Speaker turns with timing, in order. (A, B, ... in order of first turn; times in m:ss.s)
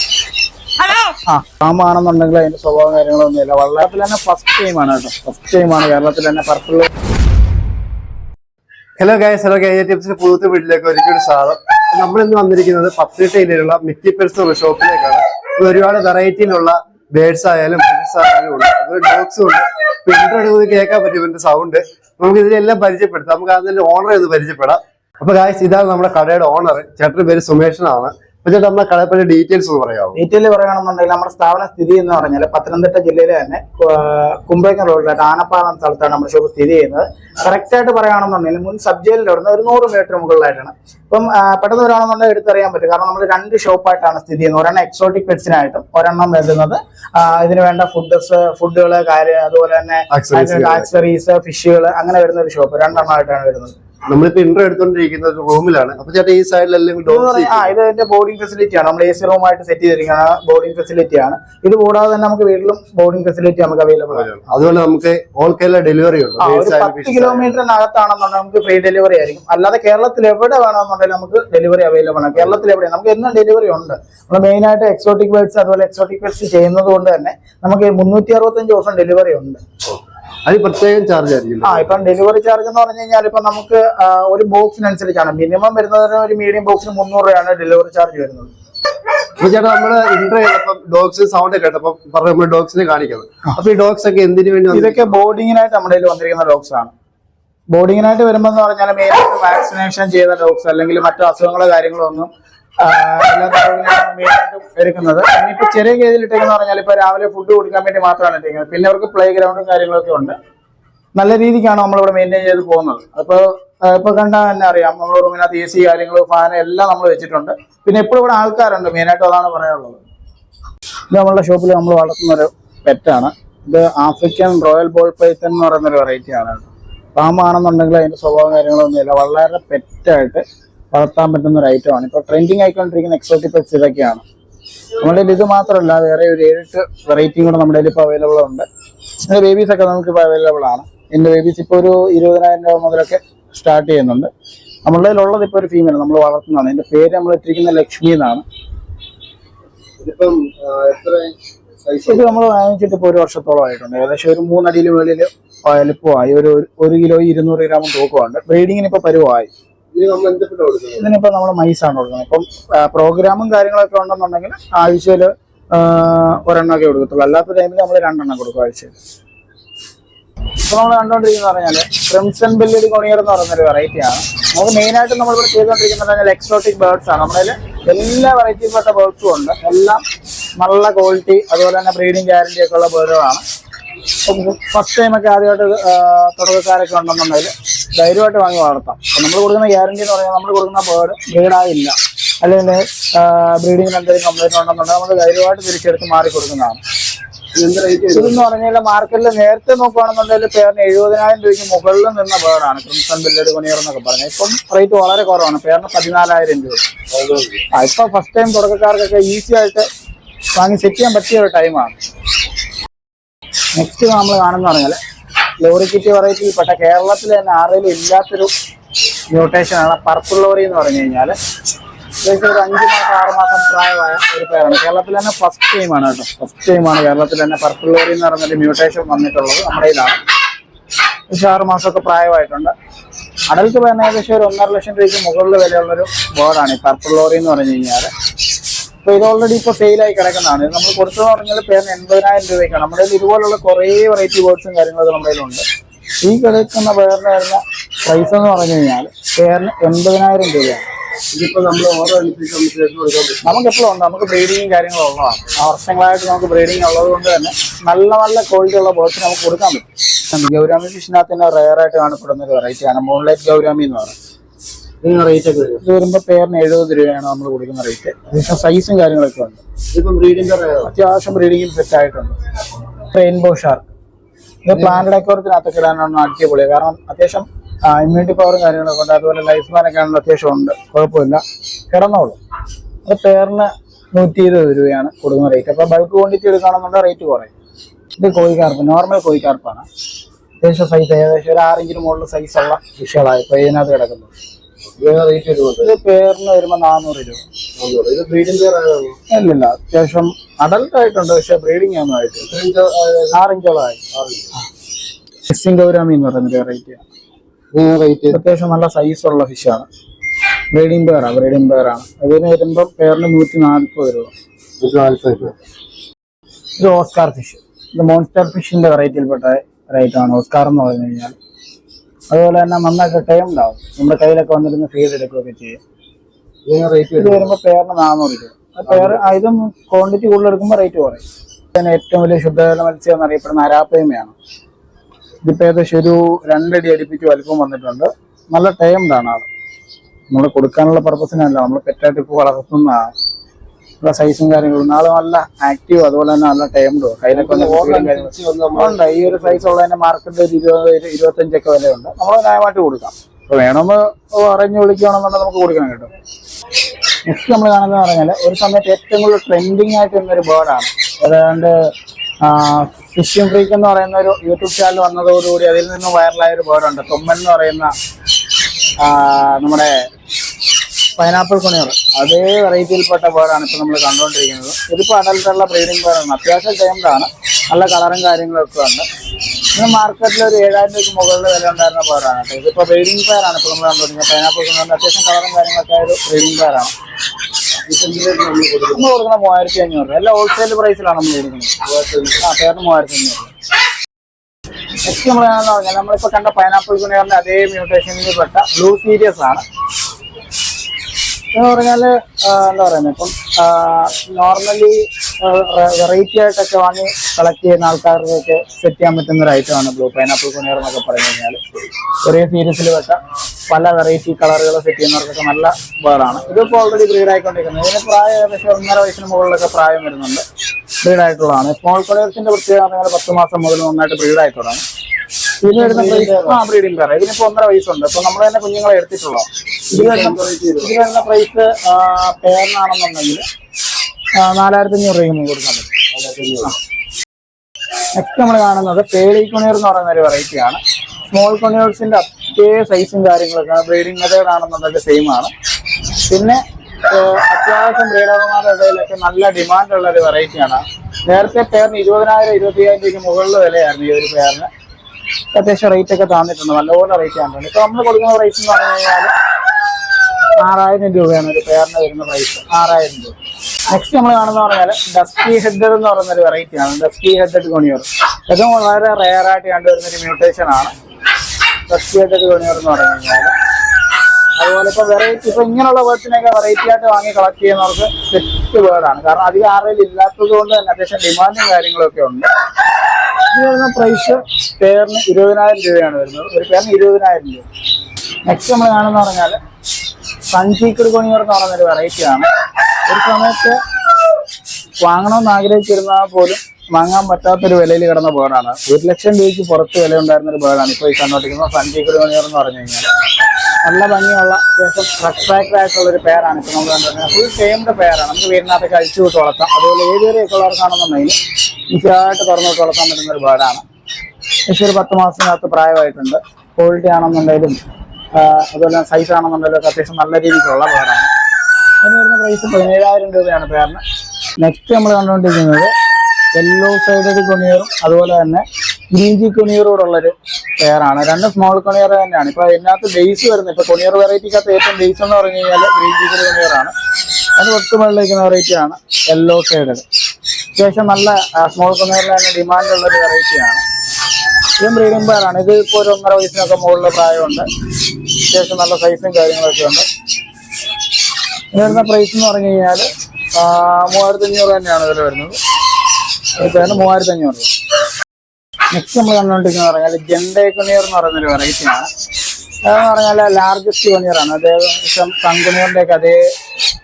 0:01.1-0:06.9 A
0:09.0-0:30.2 B
0:30.1-0:53.8 A
0:50.1-0:51.0 B
0:54.1-0:57.7 B
0:57.0-1:04.3 A
1:04.1-1:07.6 B
1:06.4-1:19.6 A
1:20.4-1:21.9 B
1:21.6-1:28.5 A
1:29.4-1:35.1 B
1:34.7-1:36.9 A
1:37.7-1:42.3 A
1:42.8-1:50.4 A
1:51.2-2:00.0 A
2:01.1-2:14.2 A
2:15.0-2:18.7 A
2:19.2-2:24.3 A
2:24.8-2:28.4 A
2:30.0-2:32.4 B
2:32.1-2:39.5 A
2:39.9-2:41.1 B
2:41.0-2:49.0 A
2:50.6-3:00.0 A
3:00.6-3:03.4 A
3:04.2-3:16.8 A
3:17.5-3:18.4 B
3:18.1-3:26.8 A
3:27.1-3:27.6 B
3:27.7-3:29.8 A
3:30.5-3:32.0 A
3:33.8-3:35.0 A
3:35.6-3:38.5 A
3:39.3-3:41.3 A
3:42.2-3:50.2 A
3:51.3-3:52.7 A
3:53.5-3:58.1 A
3:59.0-4:05.6 A
4:06.2-4:10.8 A
4:11.3-4:13.6 B
4:13.4-4:24.1 A
4:25.0-4:25.8 B
4:25.8-4:29.6 A
4:29.9-4:30.9 B
4:30.8-4:32.4 A
4:33.0-4:33.8 A
4:34.6-4:42.4 A
4:43.0-4:47.5 A
4:48.2-4:49.8 A
4:50.6-4:54.3 A
4:54.9-4:55.9 B
4:55.8-4:57.4 A
4:57.8-4:59.2 B
4:59.3-5:02.5 A
5:02.5-5:03.4 B
5:03.3-5:04.0 A
5:04.1-5:04.5 B
5:05.4-5:07.0 A
5:07.7-5:08.4 B
5:08.3-5:09.9 A
5:10.7-5:14.3 A
5:14.8-5:15.5 B
5:16.8-5:21.3 A
5:22.3-5:25.8 A
5:26.6-5:27.5 B
5:27.2-5:31.2 A
5:28.9-5:29.2 B
5:31.7-5:34.3 A
5:35.4-5:39.5 A
5:40.3-5:43.1 A
5:44.0-5:56.1 A
5:47.3-5:49.6 B
5:57.3-6:07.9 A
6:09.0-6:10.0 A
6:11.2-6:19.0 A
6:19.7-6:26.9 A
6:27.8-6:29.1 B
6:28.9-6:31.7 A
6:31.8-6:32.4 B
6:32.4-6:33.5 A
6:35.0-6:39.6 A
6:41.5-6:51.6 A
6:52.2-7:00.4 A
7:01.0-7:04.8 A
7:05.6-7:13.4 A
7:05.7-7:06.6 B
7:09.9-7:10.9 B
7:14.4-7:15.9 A
7:16.1-7:16.7 B
7:18.1-7:20.8 A
7:21.3-7:25.5 A
7:26.2-7:34.7 A
7:35.5-7:39.3 A
7:40.6-7:43.4 A
7:43.9-7:50.9 A
7:51.9-7:53.5 A
7:54.6-8:02.5 A
8:03.5-8:07.6 A
8:08.4-8:09.6 A
8:10.5-8:12.5 A
8:13.0-8:13.8 A
8:15.0-8:23.1 A
8:23.8-8:31.4 A
8:31.9-8:33.8 A
8:34.7-8:37.8 A
8:38.3-8:41.3 A
8:42.0-8:44.0 A
8:44.6-8:45.9 A
8:46.5-8:56.9 A
8:57.6-9:00.0 A
9:00.7-9:03.8 A
9:04.8-9:07.6 A
9:08.4-9:10.0 A
9:11.7-9:15.6 A
9:16.6-9:17.7 A
9:18.9-9:22.1 A
9:22.8-9:26.4 A